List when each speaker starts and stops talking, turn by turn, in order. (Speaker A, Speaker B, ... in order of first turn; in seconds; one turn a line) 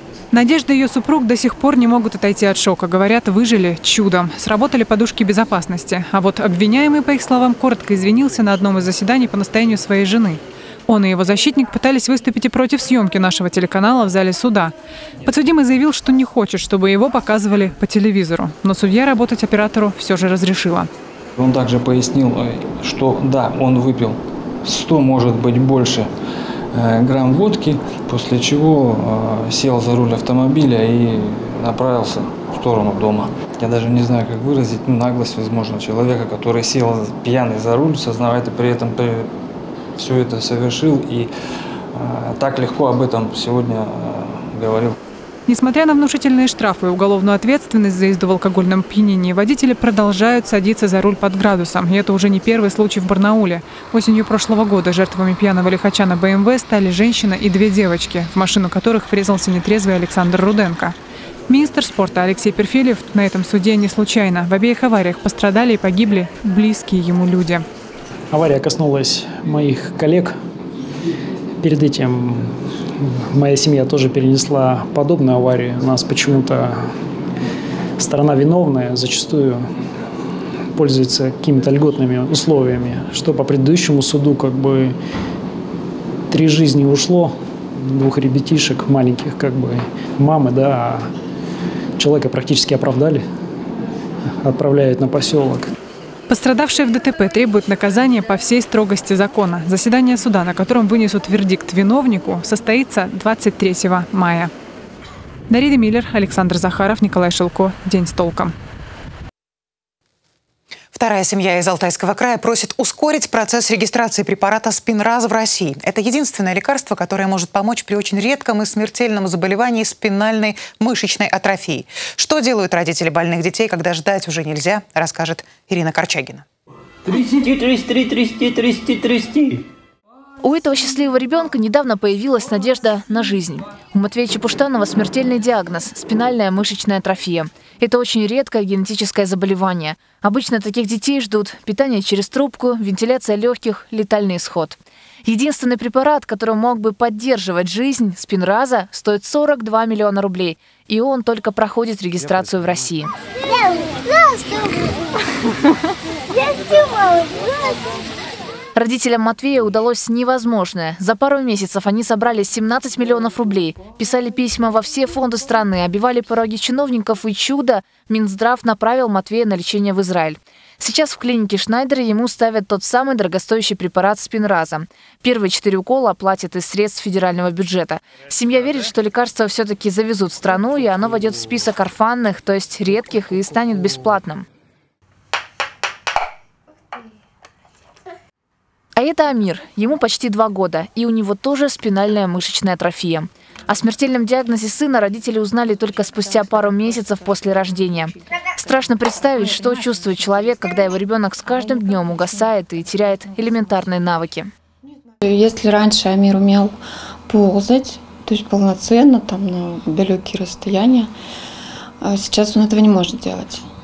Speaker A: 0.3-14.7
Speaker A: 15.2-20.9
Speaker B: 21.4-26.1
Speaker B: 26.7-39.3
Speaker B: 40.0-41.3
Speaker B: 41.9-45.0
Speaker A: 45.5-61.0
Speaker A: 61.5-67.7
Speaker C: 68.3-70.3
Speaker C: 71.6-72.5
Speaker C: 73.3-76.9
Speaker C: 78.0-79.7
Speaker C: 80.7-85.0
Speaker C: 86.3-91.1
Speaker C: 92.0-93.2
Speaker C: 94.4-95.7
Speaker A: 96.3-104.5
Speaker A: 105.5-108.5
Speaker D: 110.9-126.5
Speaker E: 127.2-129.4
Speaker F: 130.4-153.1
Speaker F: 158.8-184.5
Speaker F: 189.0-204.5
Speaker G: 205.2-206.8
Speaker G: 207.3-211.1
Speaker G: 212.0-213.7